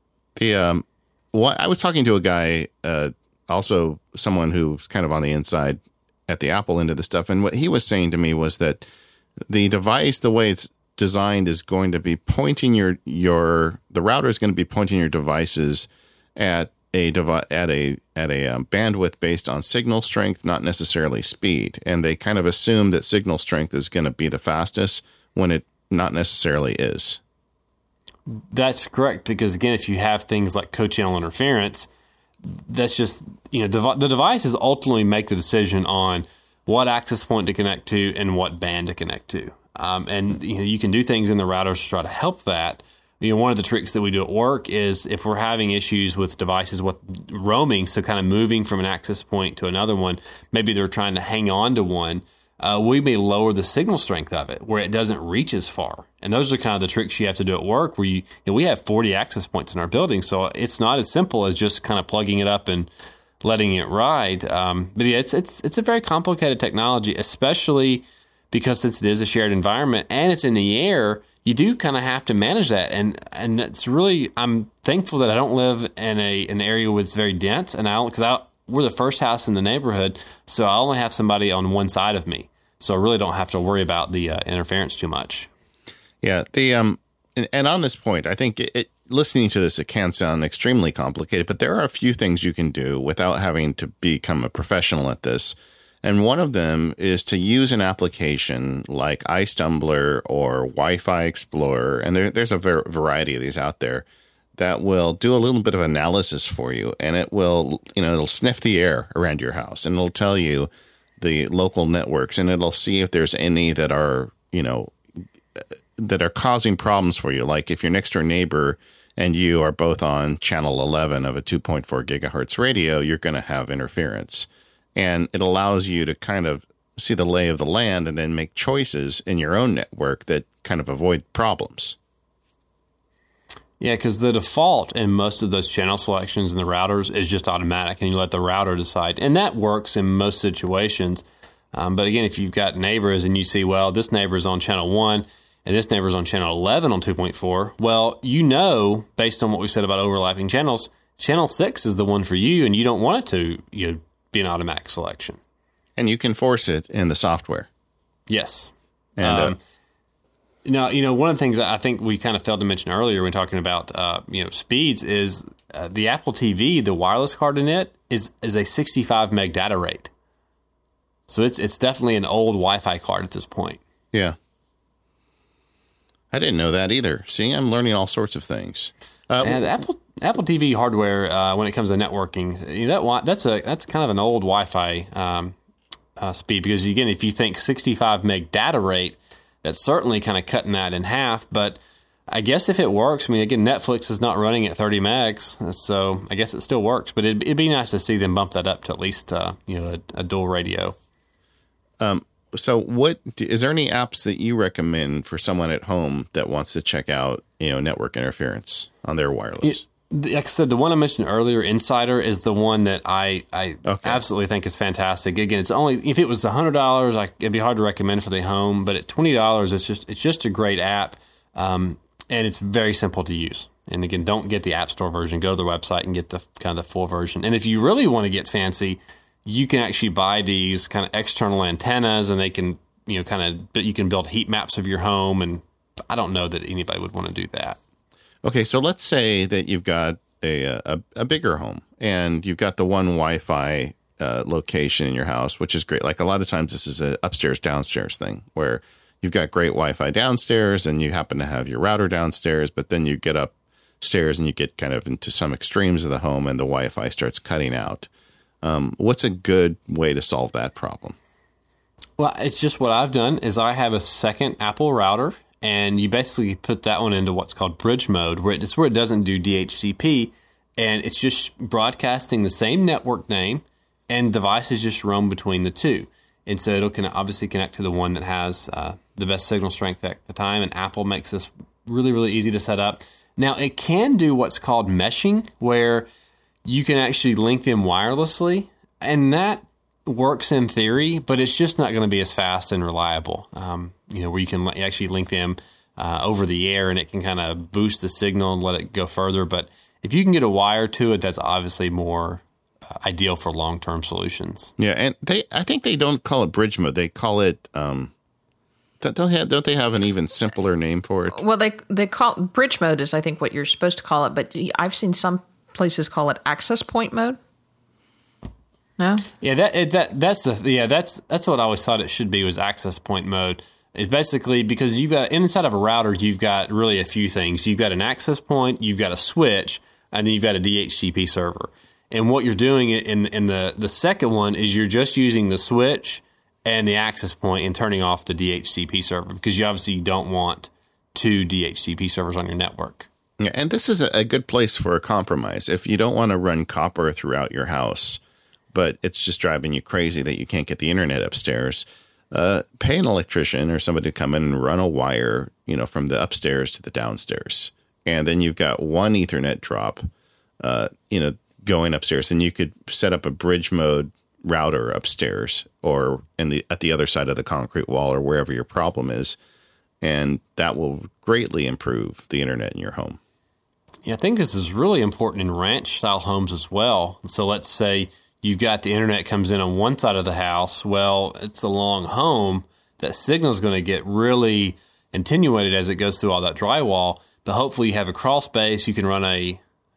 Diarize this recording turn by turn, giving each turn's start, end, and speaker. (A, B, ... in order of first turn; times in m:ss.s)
0:00.4-0:08.8 A
0:09.5-0:27.2 A
0:28.3-0:31.9 B
0:32.4-1:02.9 B
1:03.4-1:25.5 B
1:26.2-1:55.0 A
1:55.6-2:12.0 A
2:13.8-2:35.4 B
2:36.0-2:37.7 A
2:38.3-2:39.6 B
2:39.2-2:39.6 A
2:40.6-2:50.1 B
2:51.3-2:53.8 B
2:56.3-2:59.6 A
2:59.4-3:05.6 B
3:06.2-3:11.8 B
3:12.3-3:21.0 B
3:22.0-3:29.8 A
3:29.6-3:57.8 B
3:33.9-3:34.2 A
3:58.4-4:18.1 A
4:18.6-4:21.2 A
4:22.2-4:46.1 B
4:46.6-5:04.7 B
5:04.8-5:08.1 A
5:09.0-5:11.4 A
5:11.3-5:17.4 C
5:19.0-5:19.3 C
5:19.4-5:43.1 B
5:43.4-5:48.2 A
5:48.7-6:00.1 A
6:00.6-6:09.4 A
6:10.0-6:13.2 A
6:14.0-6:29.6 B